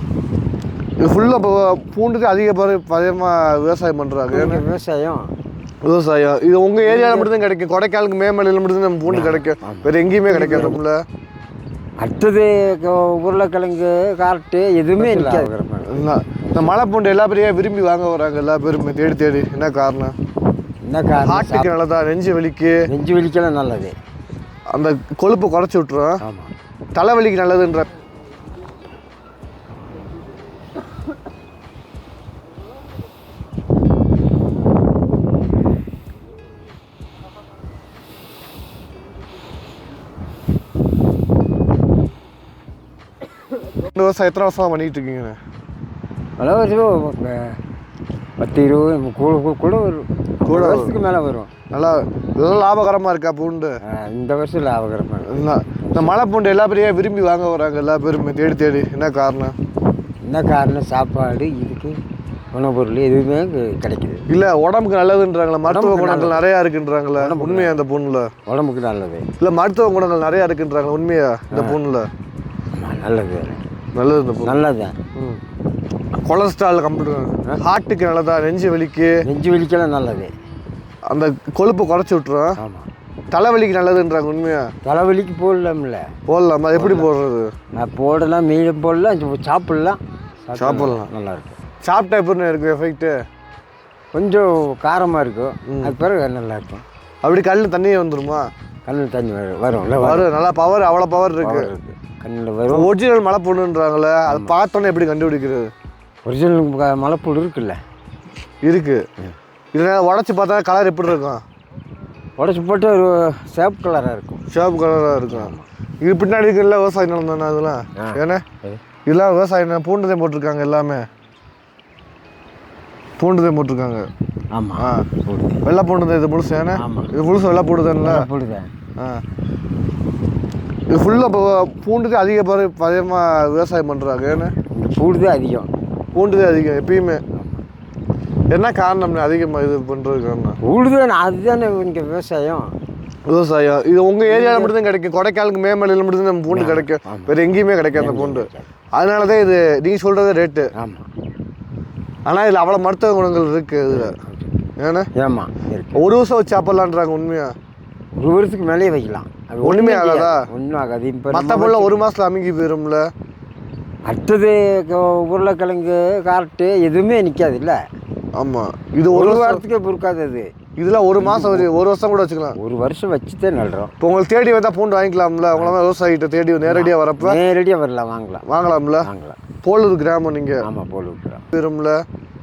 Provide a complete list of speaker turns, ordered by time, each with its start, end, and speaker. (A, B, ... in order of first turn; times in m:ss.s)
0:01.0-0:04.6 A
0:04.3-0:05.3 B
0:05.8-0:11.0 A
0:06.8-0:07.3 B
0:09.1-0:10.8 B
0:12.0-0:16.6 B
0:15.0-0:20.1 A
0:20.8-0:21.7 B
0:21.2-0:22.9 A
0:22.9-0:24.0 B
0:24.7-0:26.2 A
0:26.2-0:26.5 B
0:26.9-0:27.9 A
0:43.8-0:45.4 A
0:46.4-0:47.6 B
0:48.4-0:51.5 B
0:50.4-0:50.9 A
0:51.7-0:53.8 A
0:53.9-0:56.1 B
0:55.3-0:59.5 A
1:00.2-1:02.0 B
1:02.5-1:04.2 B
1:04.3-1:08.3 A
1:05.7-1:06.4 B
1:07.2-1:07.8 B
1:08.4-1:09.3 B
1:09.4-1:12.1 A
1:12.7-1:13.6 B
1:13.9-1:14.6 A
1:14.4-1:15.0 B
1:16.2-1:19.2 A
1:19.2-1:20.3 B
1:21.1-1:22.6 A
1:22.6-1:22.9 B
1:23.3-1:24.7 A
1:24.8-1:26.1 B
1:26.3-1:27.5 A
1:26.7-1:27.1 B
1:27.8-1:31.6 B
1:30.6-1:31.1 A
1:31.8-1:33.2 A
1:34.1-1:36.8 B
1:35.7-1:35.9 A
1:37.2-1:38.5 A
1:38.8-1:40.3 B
1:40.0-1:41.7 A
1:41.4-1:42.9 B
1:42.7-1:45.7 A
1:44.3-1:44.5 B
1:46.2-1:47.8 B
1:48.6-1:49.0 A
1:49.7-1:51.4 A
1:52.4-1:54.4 B
1:54.5-1:58.4 A
1:55.3-1:55.7 B
1:58.0-1:58.8 B
1:59.0-2:01.0 A
2:03.2-2:04.1 A
2:04.5-2:05.6 B
2:04.8-2:05.0 A
2:05.6-2:08.3 A
2:06.7-2:07.1 B
2:08.0-2:08.7 B
2:10.9-2:14.5 A
2:14.7-2:15.7 B
2:16.1-2:17.2 A
2:17.4-2:17.6 B
2:18.5-2:20.6 A
2:20.6-2:22.8 B
2:23.3-2:30.7 A
2:24.3-2:24.7 B
2:26.5-2:27.3 B
2:28.0-2:28.7 B
2:30.8-2:31.1 B
2:32.2-2:34.2 A
2:33.9-2:34.5 B
2:34.8-2:35.1 A
2:35.1-2:36.0 B
2:36.0-2:37.5 A
2:38.2-2:42.0 B
2:39.6-2:40.4 A
2:41.3-2:43.1 A
2:44.0-2:47.8 B
2:48.4-2:49.6 A
2:49.1-2:50.5 B
2:50.8-2:52.6 A
2:51.2-2:51.7 B
2:52.6-2:53.9 B
2:54.0-2:57.4 A
2:56.6-2:58.4 B
2:58.4-2:59.1 A
2:59.0-2:59.4 B
2:59.6-3:00.6 A
3:00.6-3:01.4 B
3:01.5-3:02.0 A